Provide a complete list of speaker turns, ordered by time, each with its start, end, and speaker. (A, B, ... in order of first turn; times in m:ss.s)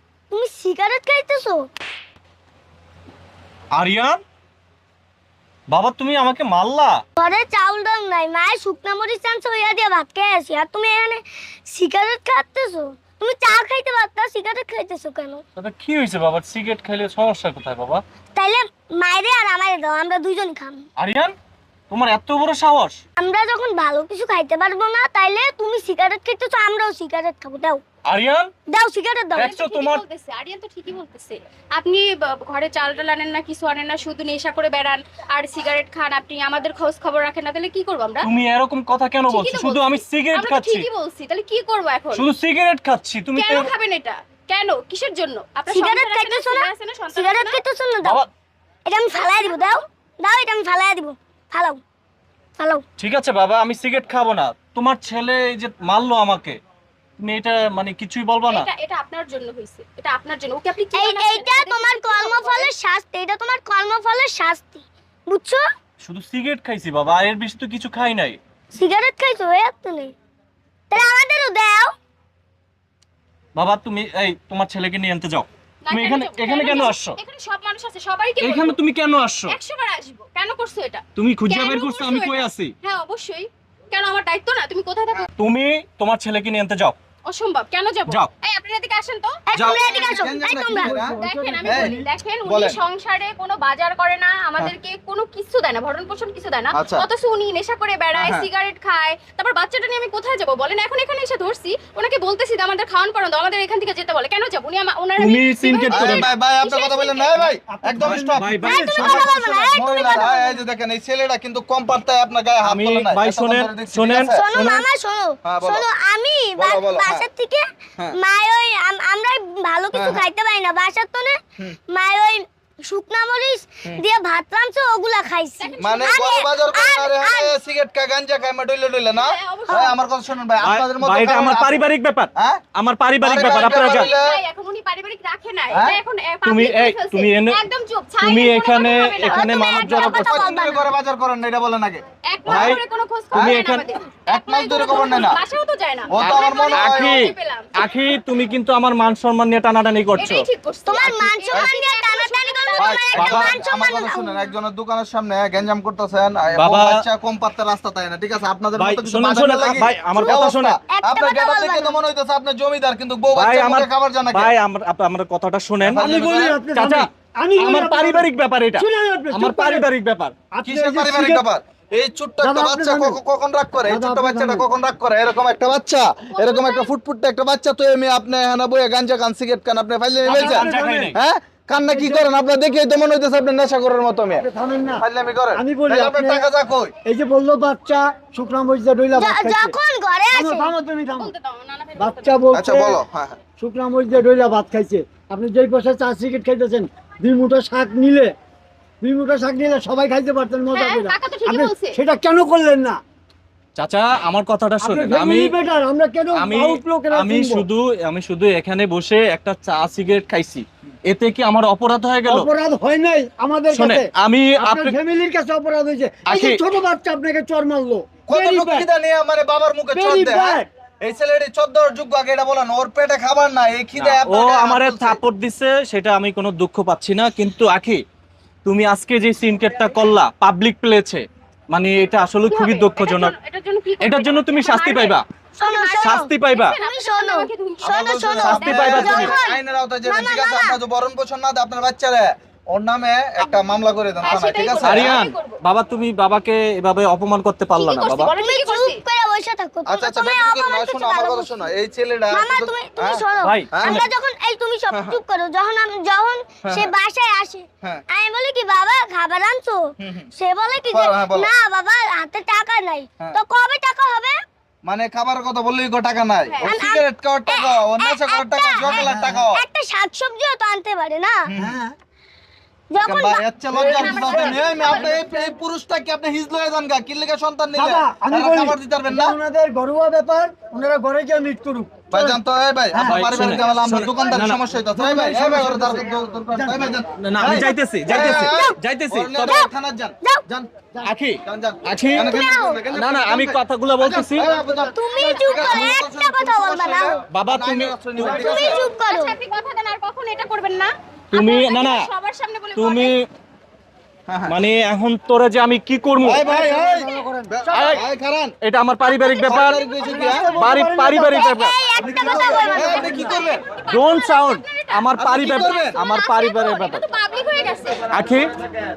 0:00.3-0:01.7 A
0:03.7-0:04.2 B
0:05.7-0:07.0 B
0:07.2-0:15.4 A
0:15.6-0:18.0 B
0:18.4-0:20.8 A
0:21.0-0:21.4 B
0:21.9-0:23.0 B
0:23.2-0:27.8 A
0:28.0-0:28.5 B
0:28.7-0:29.5 A
0:29.4-0:30.0 B
0:29.4-0:38.3 C
0:38.2-0:40.9 B
0:39.3-0:42.3 C
0:42.1-0:43.7 B
0:43.3-0:47.6 C
0:45.7-0:48.2 A
0:48.0-0:48.3 B
0:48.9-0:51.8 A
0:49.1-0:49.8 C
0:52.6-0:52.8 A
0:53.0-0:56.6 B
0:57.2-0:58.7 B
0:58.5-1:02.7 C
1:01.0-1:05.6 A
1:06.0-1:08.4 B
1:08.7-1:10.1 A
1:10.9-1:11.9 A
1:13.5-1:17.2 B
1:15.8-1:18.8 C
1:18.4-1:19.6 B
1:19.5-1:25.3 C
1:21.2-1:22.7 B
1:25.4-1:27.0 B
1:27.2-1:30.3 C
1:29.5-1:30.9 A
1:29.5-1:32.8 D
1:30.7-1:32.0 E
1:31.2-1:47.4 C
1:36.7-1:37.1 D
1:38.2-1:38.5 D
1:45.2-1:46.3 B
1:45.9-1:54.4 D
1:47.6-1:49.3 E
1:48.0-1:48.9 B
1:48.6-1:50.6 A
1:52.6-1:54.8 B
1:54.3-2:01.4 A
1:55.4-1:55.8 D
1:56.6-1:57.2 D
1:59.9-2:00.2 D
2:01.9-2:07.6 A
2:05.6-2:06.1 C
2:05.8-2:11.8 D
2:09.1-2:09.9 C
2:09.7-2:10.0 A
2:10.6-2:14.1 B
2:12.4-2:12.6 D
2:13.2-2:14.4 D
2:13.4-2:20.4 C
2:15.7-2:16.0 D
2:16.4-2:17.6 B
2:18.2-2:20.4 B
2:20.0-2:20.9 A
2:20.0-2:22.8 D
2:22.3-2:27.8 C
2:22.5-2:22.8 B
2:23.3-2:23.6 D
2:23.4-2:23.9 B
2:24.3-2:25.4 D
2:26.1-2:27.2 D
2:26.2-2:30.4 B
2:30.2-2:33.1 C
2:30.9-2:34.5 A
2:32.8-2:44.5 D
2:33.2-2:33.6 B
2:36.6-2:37.0 B
2:38.8-2:40.8 B
2:40.2-2:42.0 A
2:43.3-2:46.0 B
2:45.8-2:46.6 D
2:46.0-2:49.9 E
2:46.7-2:50.4 B
2:50.5-2:51.4 E
2:50.6-3:04.5 D
2:52.4-2:53.2 E
2:53.8-2:54.7 E
2:56.3-2:56.9 C
3:00.2-3:01.1 E
3:00.4-3:01.2 B
3:01.8-3:02.3 E
3:04.4-3:06.5 E
3:05.0-3:06.9 D
3:07.0-3:09.8 E
3:09.1-3:10.7 A
3:10.3-3:11.3 E
3:11.2-3:12.4 C
3:12.0-3:13.0 E
3:12.5-3:13.4 D
3:13.6-3:18.3 E
3:19.0-3:23.0 E
3:20.7-3:22.0 C
3:23.8-3:25.5 B
3:24.8-3:27.7 E
3:26.3-3:32.5 B
3:32.2-3:38.9 E
3:33.7-3:35.0 B
3:36.3-3:36.6 B
3:38.3-3:45.2 D
3:39.9-3:40.7 E
3:44.0-3:48.0 B
3:48.6-3:53.3 B
3:52.5-3:59.2 C
3:54.0-3:55.2 B
3:55.6-4:00.8 A
3:56.0-3:56.8 B
3:57.8-4:05.2 D
3:58.5-3:59.3 B
4:04.2-4:05.6 C
4:04.8-4:08.3 B
4:07.8-4:09.0 C
4:08.4-4:11.7 A
4:09.9-4:14.0 D
4:12.3-4:24.4 A
4:13.4-4:14.1 B
4:14.9-4:15.2 D
4:16.6-4:16.9 D
4:20.0-4:20.3 D
4:20.9-4:21.5 D
4:24.8-4:29.6 D
4:26.4-4:26.8 C
4:26.6-4:31.5 A
4:28.9-4:29.4 E
4:31.4-4:31.8 D
4:31.6-4:32.0 E
4:32.9-4:35.2 A
4:33.0-4:39.4 D
4:33.7-4:34.6 E
4:37.8-4:42.4 E
4:42.1-4:50.7 D
4:42.9-4:43.3 E
4:43.1-4:44.6 B
4:44.9-4:47.0 E
4:47.2-4:49.6 B
4:48.2-4:48.7 A
4:51.0-4:52.4 B
4:51.4-4:58.8 D
4:52.3-4:52.8 A
4:52.9-4:54.5 B
4:54.4-4:55.6 E
4:54.9-4:57.2 A
4:57.3-4:58.4 B
4:58.2-4:59.4 A
4:58.2-4:58.6 E
4:58.3-5:03.2 C
5:01.3-5:02.1 B
5:02.8-5:03.3 B
5:04.3-5:04.6 D
5:04.5-5:06.5 B
5:06.2-5:07.1 D
5:06.4-5:08.0 E
5:07.7-5:08.5 D
5:07.7-5:08.0 B
5:08.6-5:09.8 B
5:09.0-5:10.4 C
5:09.5-5:10.5 D
5:10.0-5:13.1 E
5:10.5-5:11.8 B
5:11.3-5:13.4 A
5:12.0-5:13.6 D
5:12.3-5:15.0 C
5:13.8-5:17.0 B
5:15.2-5:16.0 D
5:15.6-5:18.0 C
5:18.1-5:18.5 B